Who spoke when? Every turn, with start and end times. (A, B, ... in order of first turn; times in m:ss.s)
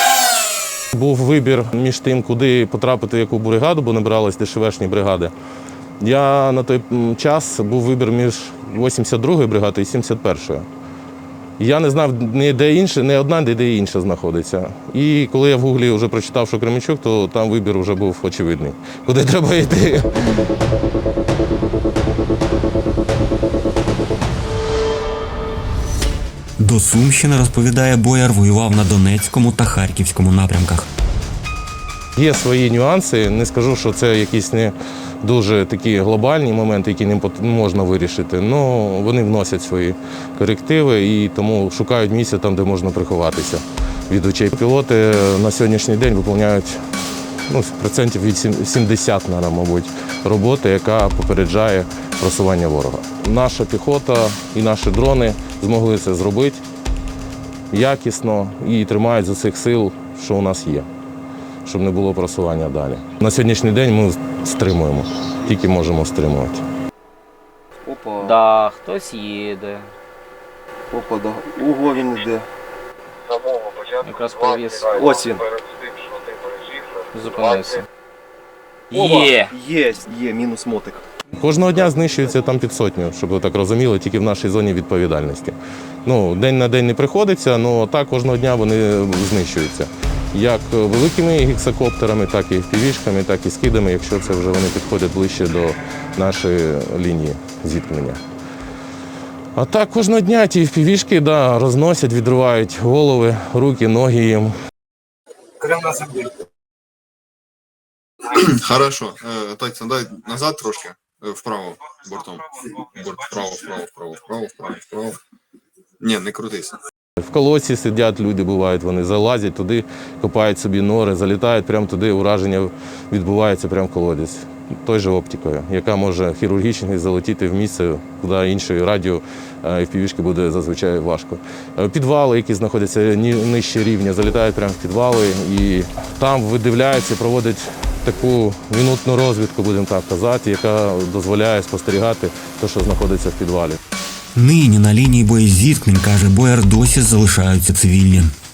0:00.9-0:05.3 A
0:06.0-0:10.6 A
0:11.6-0:20.4 A
0:26.6-0:30.9 B
0:32.2-0:46.8 A
0:47.5-0:56.6 A
0:57.7-1:00.9 A
1:01.6-1:06.6 A
1:07.8-1:08.4 C
1:08.2-1:09.9 D
1:10.9-1:12.5 C
1:14.0-1:15.1 D
1:14.9-1:15.5 C
1:17.1-1:17.8 D
1:18.9-1:19.5 D
1:18.9-1:21.0 C
1:21.4-1:38.2 A
1:39.6-1:44.5 A
1:45.7-1:46.2 E
1:48.3-1:55.2 E
1:56.0-1:56.8 E
1:57.2-2:23.8 A
2:24.3-2:28.3 B